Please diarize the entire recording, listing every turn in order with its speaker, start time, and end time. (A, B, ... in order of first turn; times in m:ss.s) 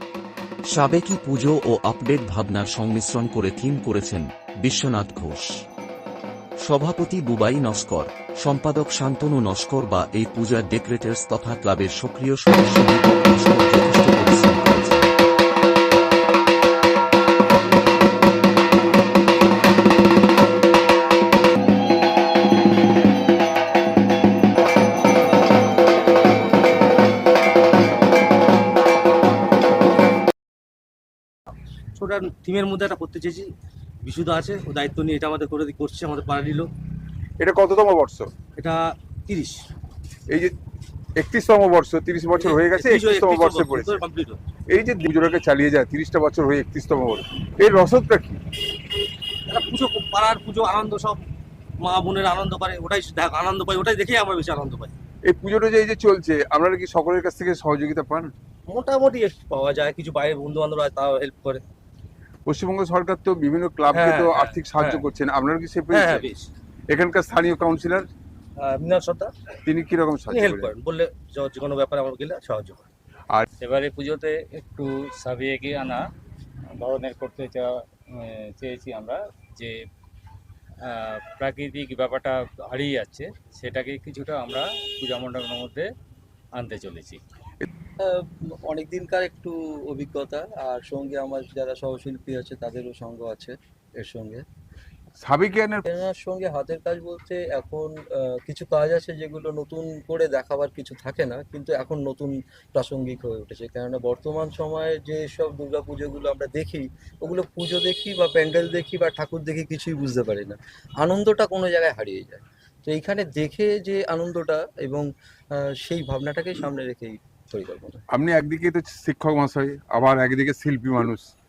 0:00.7-0:05.5 A
0:06.7-0:15.1 A
0:32.0-0:33.5 B
0:34.0-0:36.7 B
0:37.4-0:38.3 C
0:38.6-0:39.6 B
0:41.2-0:44.0 C
0:42.4-0:44.4 B
0:44.7-0:48.4 C
0:49.5-0:51.2 B
0:51.8-0:54.9 B
0:55.3-0:58.3 C
0:58.7-1:01.6 B
1:02.5-1:06.3 C
1:03.9-1:05.0 B
1:05.9-1:06.5 B
1:06.9-1:08.1 C
1:08.6-1:09.3 B
1:09.6-1:10.7 C
1:10.3-1:12.9 B
1:13.6-1:16.0 D
1:16.8-1:19.8 D
1:20.9-1:25.9 D
1:26.6-1:27.2 D
1:28.0-1:34.4 E
1:35.2-1:35.8 C
1:35.8-1:55.0 E
1:55.6-1:58.0 E
1:58.1-2:01.2 C